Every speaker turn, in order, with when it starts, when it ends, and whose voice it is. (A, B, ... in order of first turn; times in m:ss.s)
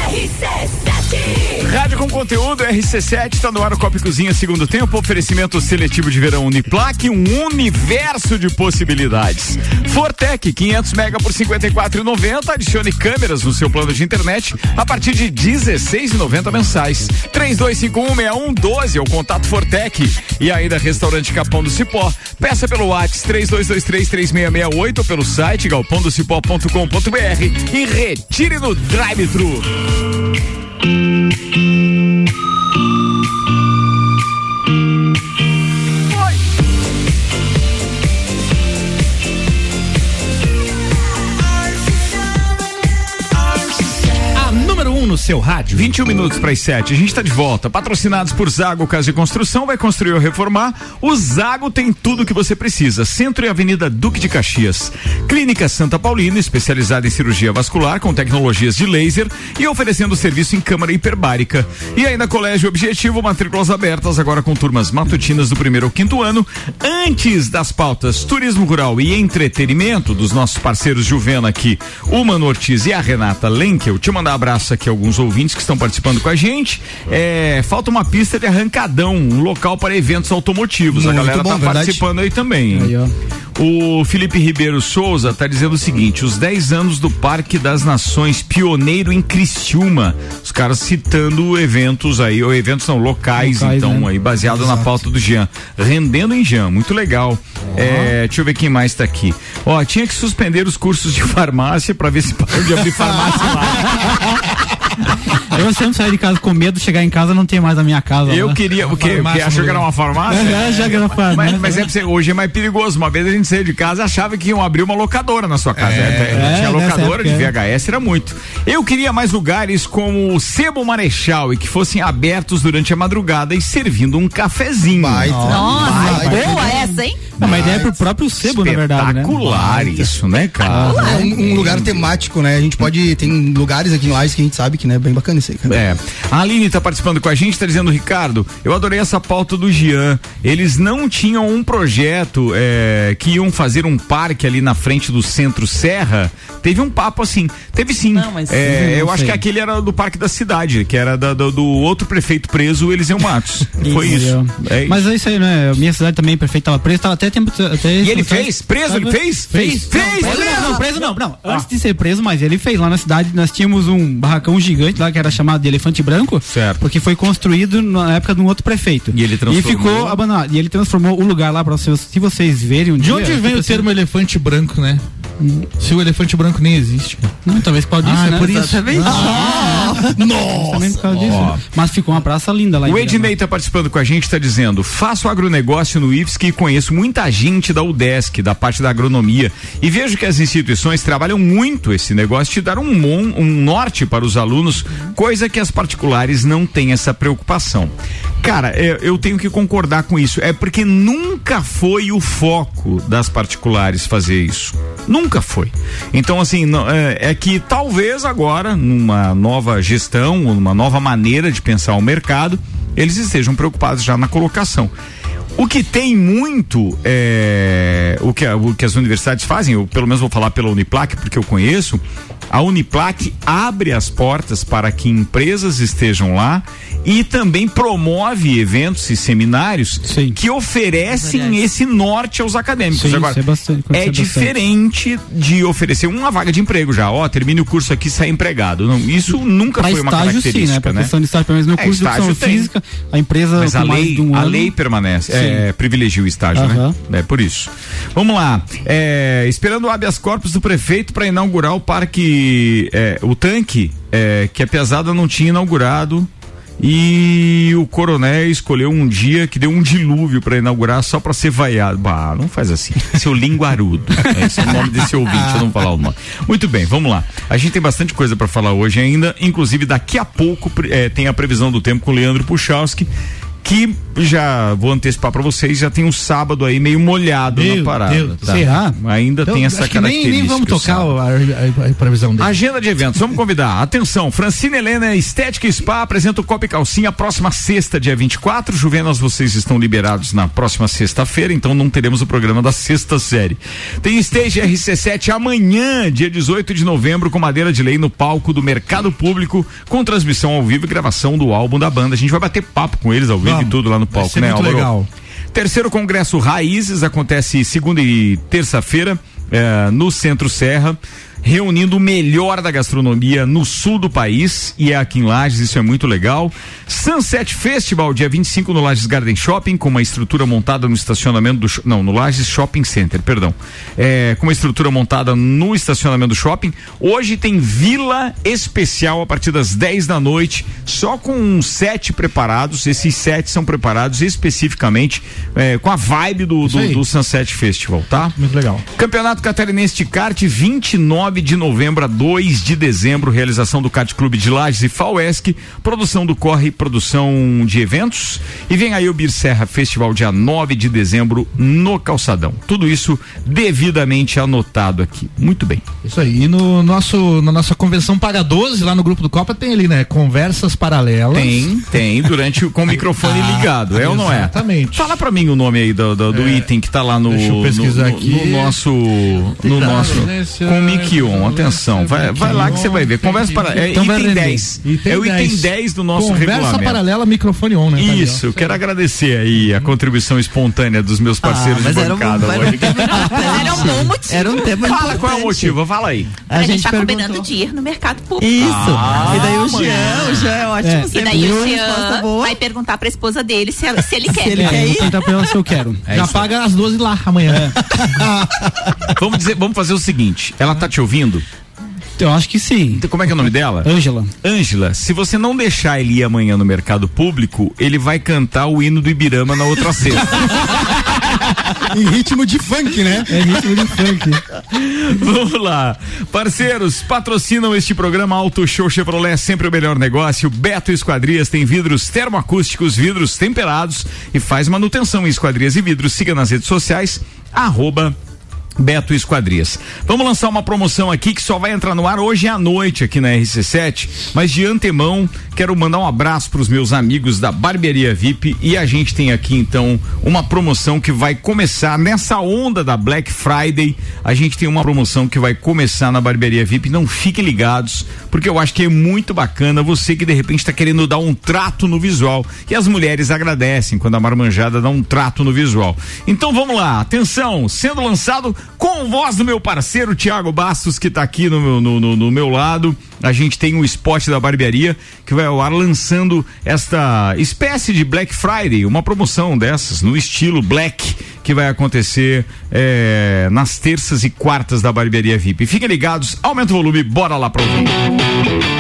0:01.6-0:29.7 A
0:44.4-0:45.9 B
0:45.7-1:22.9 A
1:20.9-1:22.0 C
1:22.7-1:23.1 D
1:23.6-1:44.2 A
1:33.4-1:34.1 D
1:43.9-1:44.2 D
1:45.5-1:48.6 D
1:48.3-2:05.6 A
1:49.0-1:50.5 B
1:50.3-1:51.7 D
1:55.8-1:56.4 C
1:56.3-1:57.5 D
2:04.9-2:06.9 C
2:05.4-2:09.4 D
2:05.5-2:07.2 E
2:07.4-2:12.1 A
2:07.4-2:08.0 C
2:09.4-2:10.2 C
2:10.7-2:11.3 D
2:10.7-2:15.8 C
2:15.7-2:35.0 A
2:28.1-2:29.4 F
2:33.8-2:53.9 D
2:38.0-2:41.6 A
2:39.5-2:40.8 B
2:46.4-2:46.8 A
2:49.1-2:50.2 A
2:53.0-2:55.0 B
2:55.4-2:55.7 D
2:55.8-2:57.4 B
2:57.4-3:03.3 D
2:58.0-2:59.9 B
2:58.4-3:00.2 F
2:59.1-3:01.4 C
3:01.2-3:01.6 A
3:02.8-3:34.9 A
3:35.6-4:01.1 A
3:50.0-3:50.4 D
3:51.1-3:51.7 F
3:52.9-3:54.5 D
3:59.8-4:04.7 D
4:01.8-4:02.7 A
4:03.6-4:16.3 A
4:05.3-4:05.6 D
4:06.6-4:07.0 D
4:16.8-4:33.1 A
4:33.6-4:41.2 A
4:37.5-4:38.9 B
4:38.5-4:39.0 D
4:39.4-4:42.6 B
4:42.4-5:04.9 A
5:03.4-5:05.1 B
5:05.5-5:38.4 A
5:36.6-5:37.0 B
5:38.4-5:38.8 B
5:39.0-5:55.8 A
5:56.0-6:01.8 B
6:01.3-6:17.0 A
6:03.0-6:05.1 B
6:06.3-6:06.7 B
6:07.2-6:08.8 B
6:09.6-6:18.8 B
6:14.0-6:14.6 D
6:17.9-6:23.9 A
6:21.4-6:25.8 F
6:23.4-6:25.2 E
6:24.7-6:26.4 A
6:26.5-6:27.5 F
6:26.5-6:30.4 E
6:28.4-6:32.6 F
6:28.6-6:30.5 A
6:30.8-6:31.5 D
6:31.1-6:35.2 E
6:34.3-6:35.2 F
6:34.6-6:36.0 D
6:36.1-6:38.2 B
6:36.1-6:36.5 A
6:39.2-6:41.4 A
6:42.2-6:43.1 D
6:42.9-6:43.9 A
6:43.8-6:44.3 D
6:44.4-6:51.2 A
6:51.9-6:53.5 C
6:53.3-6:54.4 D
6:54.6-7:08.2 A
7:08.8-7:58.0 A